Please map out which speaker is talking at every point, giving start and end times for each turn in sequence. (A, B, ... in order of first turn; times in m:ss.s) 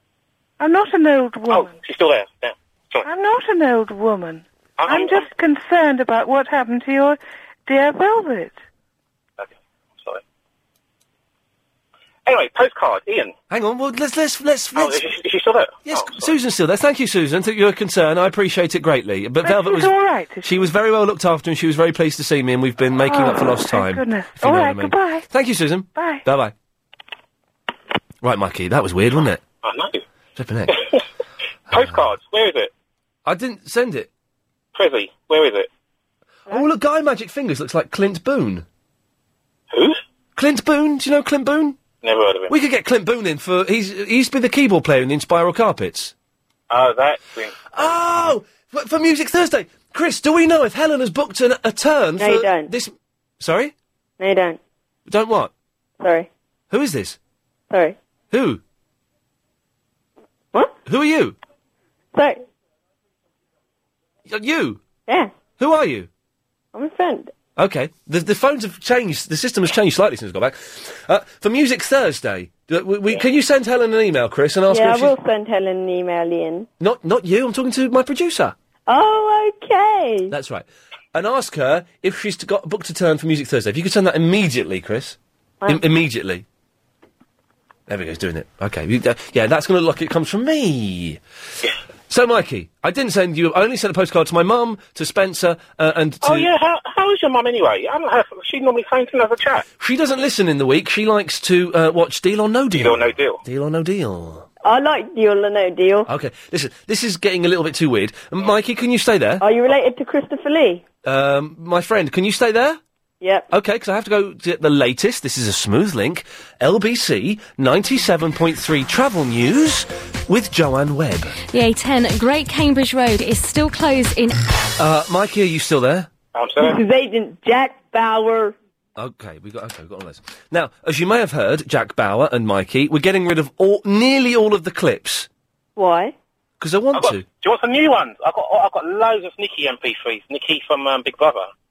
0:00.6-0:01.8 A
0:01.5-0:03.0 B
0:03.0-0:08.6 A
0:04.8-0:05.3 B
0:09.4-0:10.2 B
0:12.2-0:13.3 B
0:13.5-0:15.0 C
0:14.7-0:16.3 B
0:15.8-0:26.5 C
0:19.4-0:20.7 A
0:23.0-0:25.2 A
0:25.9-0:26.2 A
0:28.2-0:29.4 C
0:29.6-0:30.0 B
0:30.4-0:30.7 C
0:31.7-0:32.1 C
0:31.7-0:32.7 B
0:33.2-0:34.1 C
0:34.7-0:35.7 B
0:36.5-0:38.6 C
0:39.7-0:40.0 B
0:40.4-0:41.8 C
0:42.0-0:42.5 B
0:42.5-0:46.1 C
0:46.7-0:47.7 B
0:47.7-0:53.7 C
0:52.2-0:52.7 D
0:54.2-0:54.6 D
0:55.1-0:55.5 C
0:56.0-0:56.3 D
0:56.7-0:57.2 C
0:57.7-0:58.0 D
0:58.3-0:58.6 C
1:00.8-1:01.4 C
1:02.1-1:02.4 D
1:04.3-1:04.8 C
1:05.1-1:05.3 D
1:05.6-1:06.1 C
1:06.7-1:07.3 D
1:07.6-1:15.1 C
1:14.7-1:16.7 D
1:16.8-1:18.5 C
1:18.9-1:20.3 D
1:20.3-1:26.4 C
1:27.9-1:31.2 C
1:32.1-1:36.5 C
1:36.2-1:39.7 B
1:39.8-1:44.4 C
1:42.7-1:43.4 B
1:44.6-1:46.1 D
1:46.1-1:49.4 C
1:49.4-1:50.8 D
1:51.0-1:52.8 C
1:53.2-1:53.5 D
1:53.5-2:01.4 C
2:01.5-2:04.3 E
2:04.8-2:06.1 C
2:06.3-2:06.8 B
2:06.6-2:08.5 D
2:09.0-2:15.3 C
2:15.8-2:16.1 D
2:16.6-2:17.2 C
2:16.9-2:21.5 B